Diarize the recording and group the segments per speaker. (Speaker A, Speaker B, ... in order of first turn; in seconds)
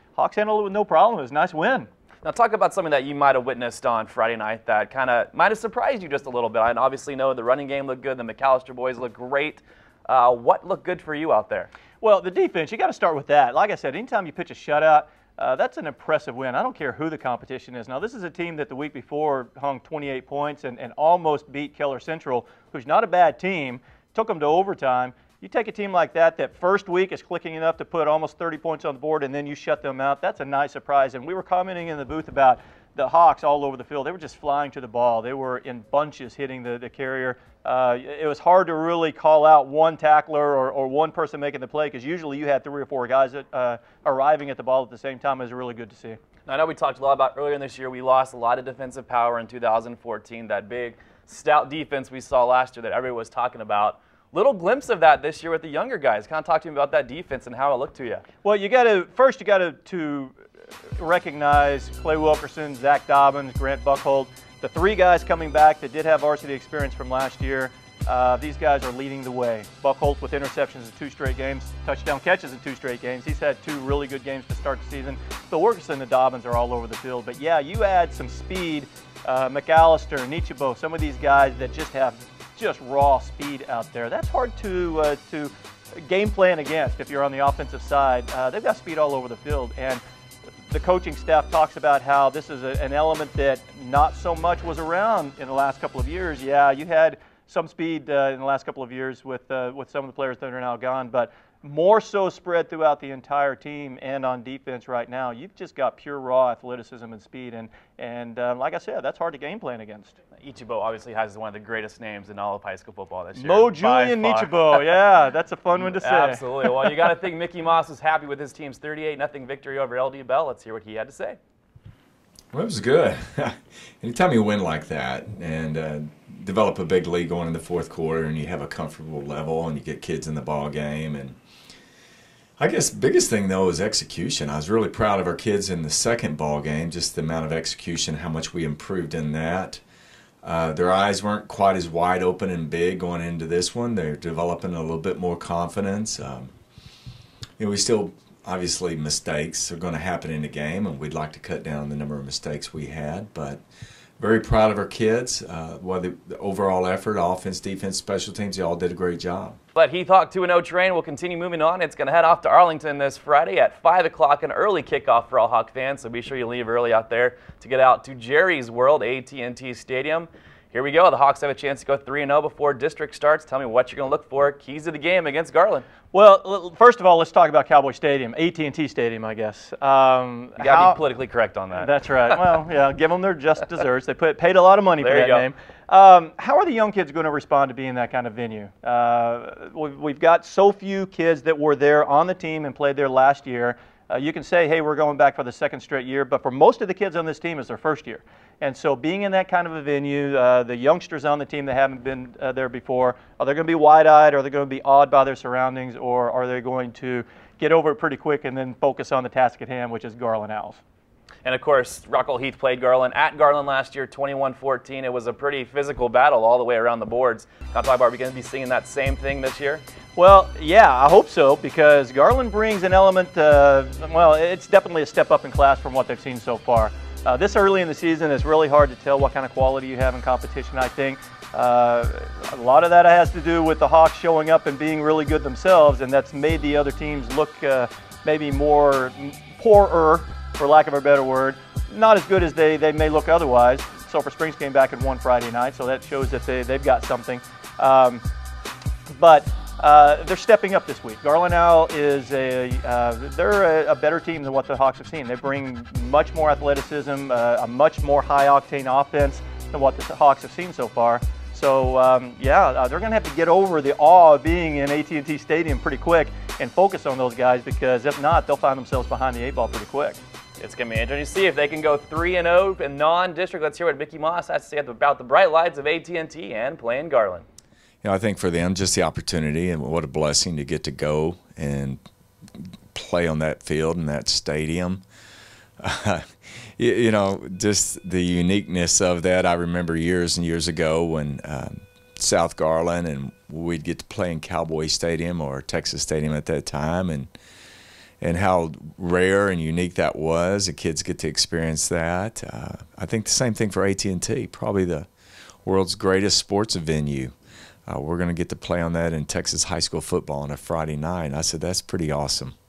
Speaker A: 0.1-1.9, 12.0-46.2, 58.4-60.4, 61.0-90.0, 90.7-110.2, 113.4-117.2, 176.1-181.0, 181.7-210.8, 220.2-248.2, 249.1-270.2
Speaker B: 2.2-11.7, 46.5-58.2, 110.4-115.0, 115.7-121.4, 159.8-175.9, 180.6-182.4, 185.0-185.5, 211.4-219.8, 270.6-277.4
Speaker C: 122.5-131.4, 132.6-139.8, 140.4-146.5, 147.6-153.6, 154.2-159.6, 278.0-282.0, 282.6-285.0, 285.8-297.3, 298.2-305.1, 305.6-307.3, 307.9-312.6